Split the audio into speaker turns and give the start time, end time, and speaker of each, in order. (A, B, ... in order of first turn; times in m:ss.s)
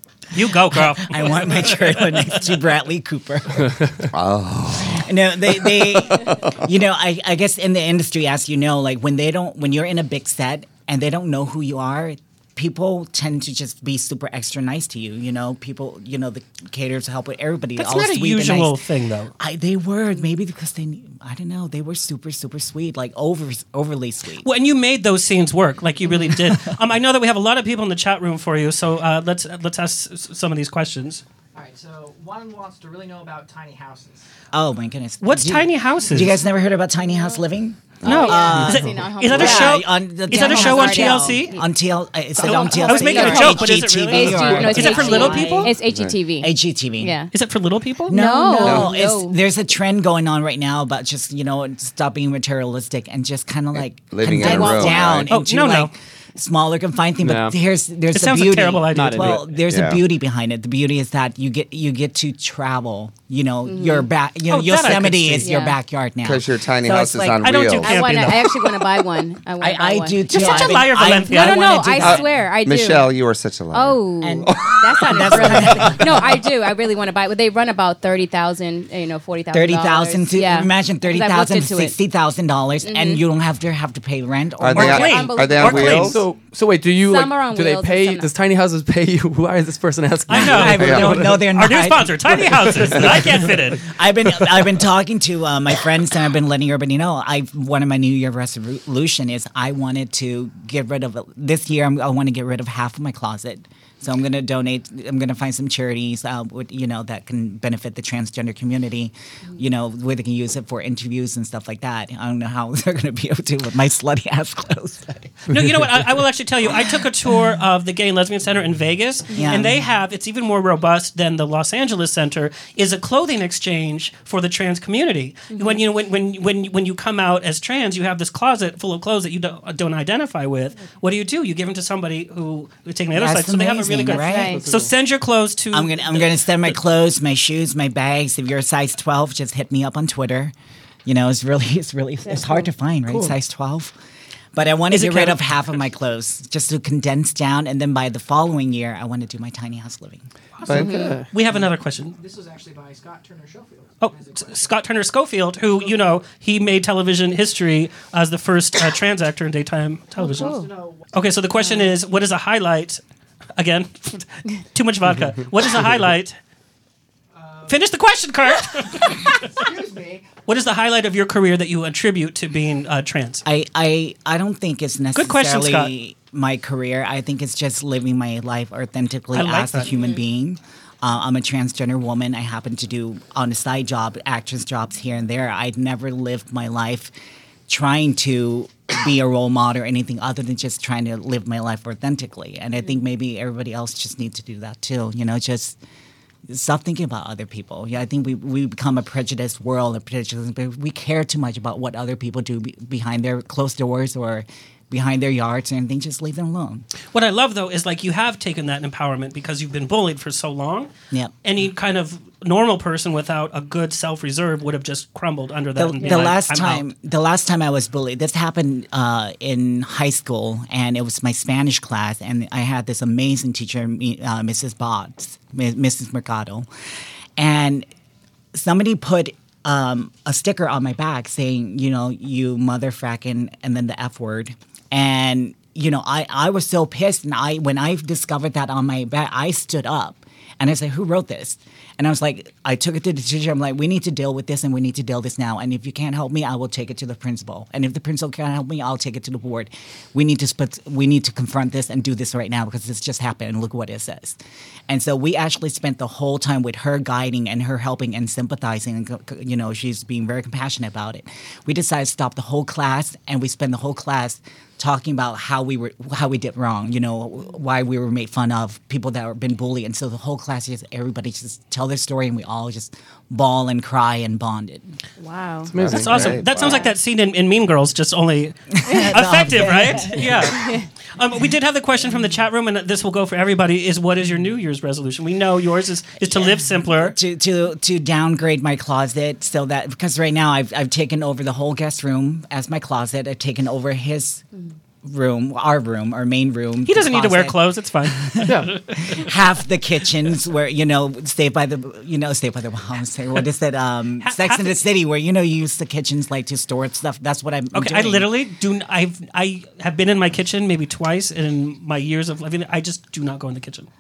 0:00.3-0:02.4 A
0:00.7-0:04.1 B
0:04.1-0:06.6 C
0:04.9-0:18.8 B
0:17.8-0:19.3 A
0:19.4-0:24.5 B
0:24.4-0:31.2 A
0:26.3-0:26.7 B
0:31.5-0:34.2 D
0:34.5-0:45.8 B
0:35.2-0:36.4 A
0:38.0-0:41.6 A
0:38.0-0:41.5 E
0:42.4-0:45.7 A
0:42.4-0:47.3 E
0:45.9-0:46.2 C
0:46.4-0:47.2 B
0:47.3-0:48.1 A
0:48.1-1:07.5 B
0:48.1-0:49.4 E
0:48.6-0:49.0 C
0:53.7-0:55.3 C
0:54.4-0:55.1 E
0:55.3-0:55.9 A
0:57.2-0:57.6 F
0:58.1-0:59.4 A
0:58.9-0:59.7 F
0:59.7-1:00.0 C
1:03.6-1:04.1 E
1:04.5-1:05.6 A
1:05.4-1:05.8 E
1:06.2-1:08.2 C
1:07.4-1:08.5 A
1:07.8-1:13.1 E
1:08.2-1:08.9 B
1:09.6-1:12.3 B
1:10.3-1:11.8 A
1:12.0-1:16.2 C
1:13.7-1:22.0 E
1:14.2-1:14.5 B
1:15.1-1:16.4 B
1:19.5-1:25.2 B
1:22.8-1:23.2 E
1:24.6-1:26.2 C
1:24.7-1:26.2 A
1:24.9-1:26.1 E
1:25.9-1:31.5 F
1:27.0-1:28.3 E
1:30.3-1:33.8 A
1:30.3-1:55.5 B
1:30.8-1:31.2 C
1:55.5-2:16.8 A
1:59.3-1:59.8 B
2:05.5-2:05.8 E
2:13.1-2:14.8 B
2:14.1-2:14.7 E
2:14.3-2:14.9 F
2:15.7-2:20.5 B
2:21.1-2:24.0 B
2:22.3-2:22.7 E
2:23.1-2:23.4 F
2:24.5-2:30.2 B
2:24.9-2:25.4 A
2:30.6-2:35.0 D
2:30.6-2:31.3 F
2:30.7-2:31.2 E
2:31.3-2:32.2 A
2:34.0-2:40.6 A
2:35.6-2:36.3 D
2:40.2-2:41.6 D
2:40.2-2:40.7 E
2:41.1-2:43.0 A
2:43.6-2:46.4 A
2:47.3-2:48.0 D
2:47.7-2:49.4 A
2:48.9-2:50.3 D
2:50.5-2:53.4 A
2:53.4-3:07.1 B
2:55.2-2:55.9 A
2:59.3-2:59.9 A
3:07.7-3:15.8 B
3:16.5-3:26.9 B
3:27.1-3:30.9 A
3:31.4-3:36.9 A
3:35.8-3:46.7 B
3:47.4-3:47.9 B
3:48.5-4:14.4 B
4:14.9-4:34.9 B
4:35.2-4:35.7 E
4:35.7-4:36.4 F
4:35.8-4:36.8 C
4:35.9-4:38.6 A
4:36.5-4:36.9 E
4:38.8-4:40.6 B
4:39.1-4:40.7 A
4:40.6-4:40.9 E
4:41.2-4:47.2 A
4:46.3-4:54.5 B
4:55.0-5:08.3 B
4:56.8-4:58.8 A
4:58.4-4:58.8 F
5:04.2-5:04.8 A
5:07.7-5:13.9 A